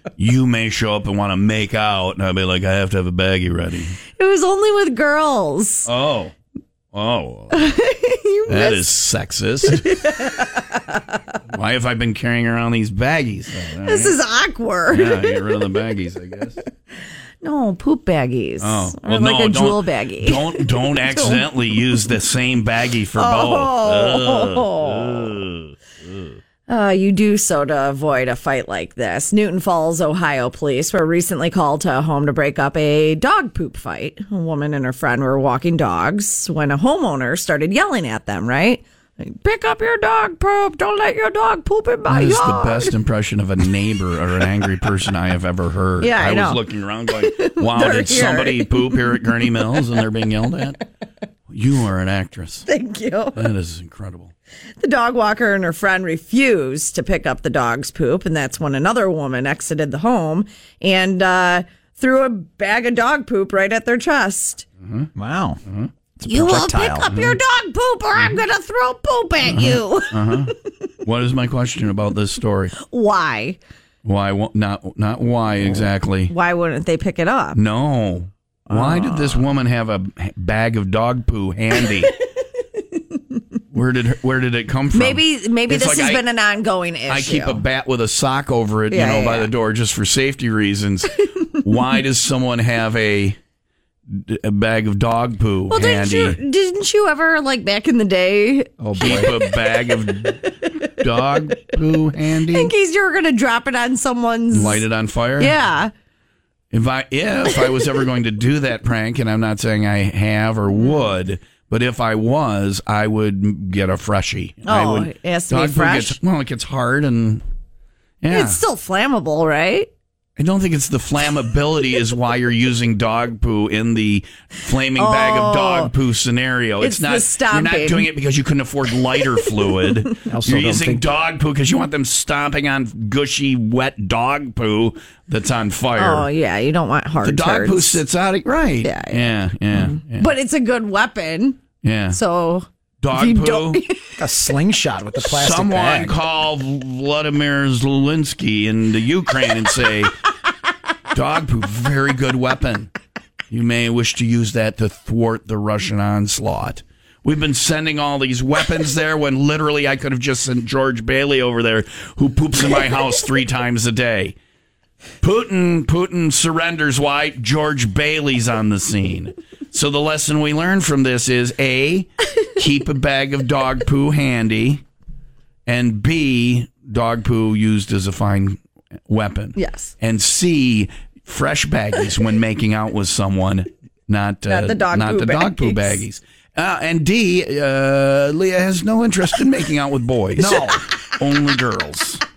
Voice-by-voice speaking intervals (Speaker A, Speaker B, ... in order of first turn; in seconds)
Speaker A: 0.2-4.0, 5.8-6.3, 6.9-7.7, 8.5-10.0, 11.5-14.2, 14.9-16.6, 18.6-26.2, 42.1-50.8, 51.5-52.7, 53.3-54.3, 64.8-65.1, 65.6-65.9, 67.1-67.3, 69.5-70.5, 71.0-72.8, 74.0-76.3, 77.5-82.1, 83.7-86.2, 87.1-93.4, 94.1-96.4, 98.9-102.7, 104.5-105.6, 106.7-117.4, 118.2-118.6, 120.4-136.3, 137.2-140.3, 141.8-142.2, 143.0-143.8, 145.2-150.2, 151.1-152.9, 153.5-164.3, 165.2-174.8, 175.7-192.2
Speaker B: 4.2-5.9, 7.5-8.9, 9.6-11.2, 13.8-15.7, 17.4-21.5, 23.1-25.4, 26.7-42.9, 46.0-49.8, 52.6-53.5, 54.8-64.7, 66.2-70.5, 72.8-73.6, 76.3-77.6, 78.7-79.5, 84.9-87.6, 88.9-89.5, 95.7-100.0, 102.4-104.8, 105.4-105.9, 110.8-111.1, 114.6-116.2, 118.3-119.9, 124.9-125.9, 126.8-128.1, 135.9-138.0, 138.8-141.6, 142.1-144.2, 179.6-179.9, 184.5-186.0
Speaker C: 65.2-65.6, 66.2-67.3, 98.8-99.2, 130.2-131.1, 144.2-146.2, 190.4-190.8